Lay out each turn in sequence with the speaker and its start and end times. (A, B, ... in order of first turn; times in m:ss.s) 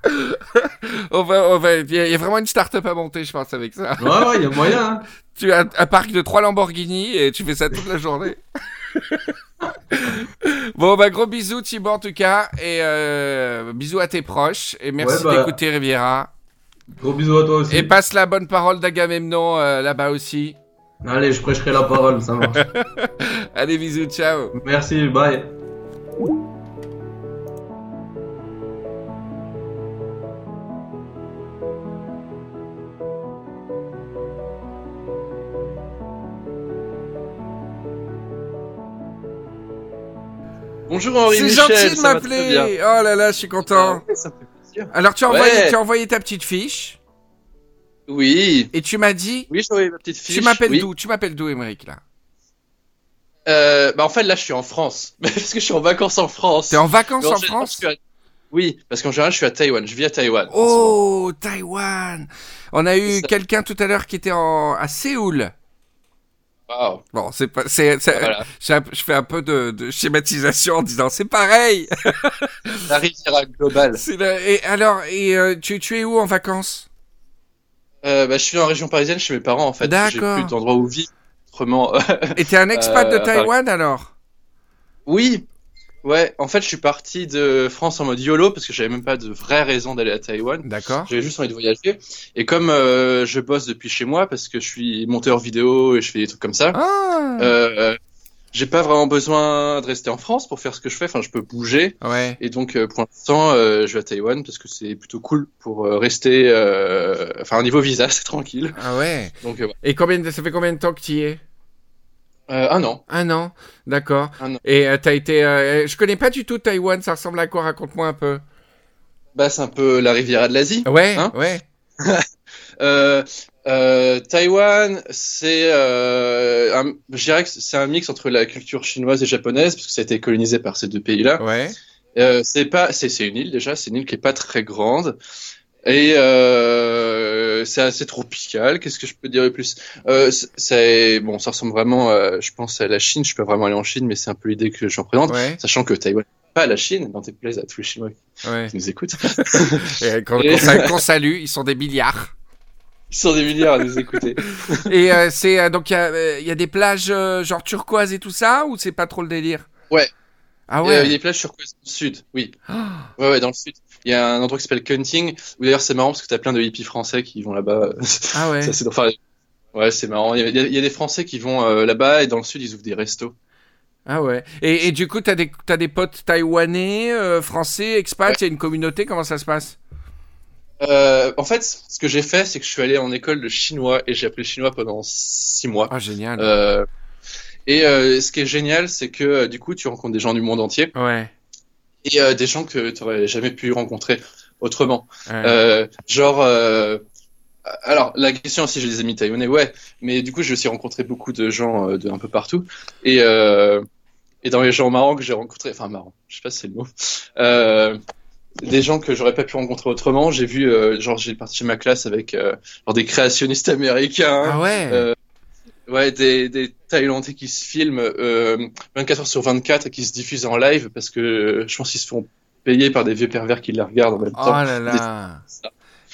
0:00.1-0:04.3 A
0:04.0-0:05.1 B
0:05.4-0:08.4 A
0:08.9-0:09.3 A
0:09.9-0:16.3 A
0:15.0-0:15.6 B
0:16.9-0:17.9 B
0:17.7-0:20.6 A
0:21.0-0:22.7 B
0:22.6-0:24.5 A
0:24.5-0:25.5 B
0:40.9-0:42.7 C
0:41.3-0:44.0 A
0:43.6-0:45.8 C
0:44.9-0:47.0 A
0:48.1-0:48.7 C
0:48.7-0:49.5 A
0:49.5-0:50.9 C
0:50.3-0:52.0 A
0:53.5-0:58.0 C
0:56.7-0:57.8 A
0:58.5-1:01.0 C
1:00.5-1:05.5 A
1:06.7-1:07.0 C
1:07.1-1:12.8 A
1:08.1-1:08.5 C
1:12.9-1:14.0 C
1:14.0-1:16.9 A
1:18.0-1:23.5 C
1:19.8-1:20.5 A
1:22.4-1:24.1 A
1:25.1-1:25.4 C
1:26.0-1:36.8 C
1:30.6-1:31.1 A
1:36.7-1:37.5 A
1:37.4-1:38.0 C
1:38.5-1:48.8 C
1:42.0-1:42.4 A
1:48.8-1:51.4 A
1:49.4-1:49.8 C
1:52.5-1:53.0 C
1:53.1-1:58.4 A
1:59.4-2:01.4 C
2:00.9-2:01.6 A
2:02.0-2:02.3 C
2:02.8-2:11.4 C
2:11.4-2:11.8 A
2:12.2-2:15.2 C
2:15.8-2:31.0 C
2:25.3-2:25.6 A
2:28.4-2:28.7 A
2:29.8-2:32.3 A
2:33.1-2:34.9 C
2:34.8-2:39.7 A
2:40.7-2:41.2 A
2:40.8-2:42.6 C
2:42.7-2:43.1 A
2:43.2-2:49.2 C
2:48.3-2:48.7 A
2:49.7-2:53.3 C
2:54.1-2:59.8 A
3:00.8-3:06.9 C
3:05.9-3:06.5 A
3:07.7-3:10.9 C
3:11.0-3:11.3 A
3:12.0-3:17.0 C
3:15.3-3:15.6 A
3:17.7-3:23.8 C
3:24.4-3:28.0 C
3:28.6-3:35.2 C
3:34.4-3:35.0 A
3:35.9-3:45.0 C
3:44.4-3:45.4 A